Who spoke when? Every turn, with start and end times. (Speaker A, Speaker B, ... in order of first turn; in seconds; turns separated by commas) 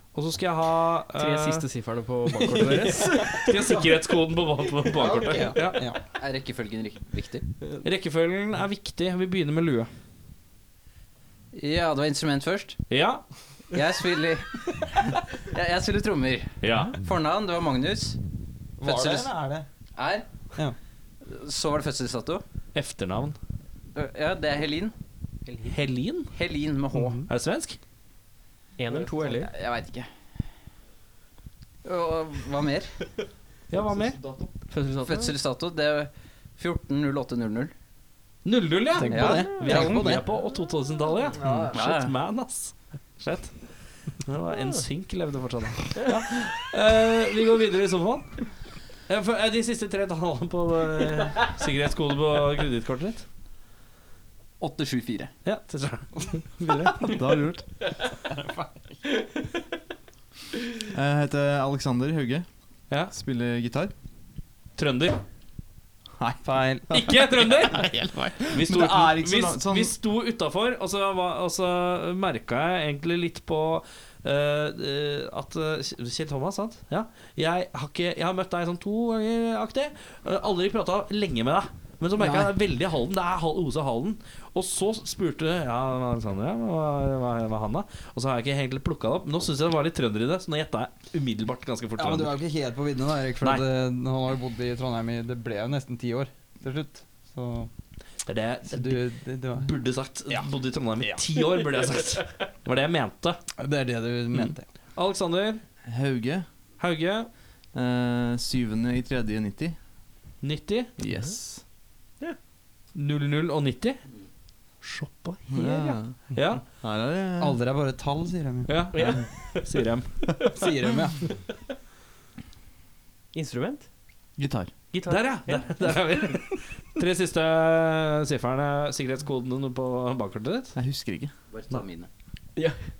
Speaker A: 0.1-1.6, Speaker B: 1.1-3.5, Speaker C: 2.6-2.9, Speaker A: 3.2-5.9, Speaker C: 4.9-6.0, Speaker D: 6.1-7.4, Speaker A: 7.8-9.9, Speaker D: 11.5-12.8, Speaker A: 12.9-13.2, Speaker D: 13.7-18.1, Speaker A: 16.6-16.9, Speaker C: 18.8-19.7, Speaker D: 18.8-19.3, Speaker D: 20.0-20.3, Speaker D: 21.2-22.4, Speaker A: 22.7-23.4, Speaker D: 23.9-24.9, Speaker A: 25.6-26.3, Speaker D: 26.3-27.2, Speaker B: 26.9-27.2, Speaker A: 27.3-27.8, Speaker B: 28.8-29.5, Speaker D: 29.0-30.1, Speaker D: 31.8-32.9, Speaker A: 33.7-34.2, Speaker E: 33.8-34.5, Speaker B: 34.7-35.3, Speaker D: 35.0-37.7, Speaker A: 38.4-43.6, Speaker C: 39.0-40.2, Speaker D: 39.1-39.5, Speaker B: 39.1-40.0, Speaker E: 41.4-41.8, Speaker D: 41.5-42.1, Speaker A: 44.1-48.4, Speaker A: 49.1-53.3, Speaker D: 54.6-55.3, Speaker A: 55.4-57.1, Speaker E: 57.0-57.6, Speaker C: 58.3-58.7, Speaker E: 60.9-62.5, Speaker E: 63.1-63.9, Speaker A: 64.8-65.2, Speaker E: 66.2-69.9, Speaker C: 66.4-66.9, Speaker A: 66.9-92.3, Speaker C: 92.0-97.7, Speaker A: 98.2-99.0, Speaker C: 98.7-99.7, Speaker A: 99.5-103.4, Speaker C: 103.6-104.7, Speaker A: 105.0-105.6, Speaker E: 105.8-106.5, Speaker A: 106.8-107.3, Speaker E: 107.7-109.8, Speaker A: 110.4-110.9, Speaker E: 111.0-111.6, Speaker A: 112.9-114.0, Speaker A: 114.8-116.6, Speaker E: 115.5-117.6, Speaker B: 115.6-115.9, Speaker C: 117.4-118.8, Speaker A: 118.7-120.3, Speaker B: 118.9-119.6, Speaker C: 120.5-121.3, Speaker B: 123.3-123.9, Speaker E: 124.4-124.7, Speaker B: 124.9-125.8, Speaker A: 125.1-130.8, Speaker E: 130.8-131.3, Speaker D: 131.5-132.1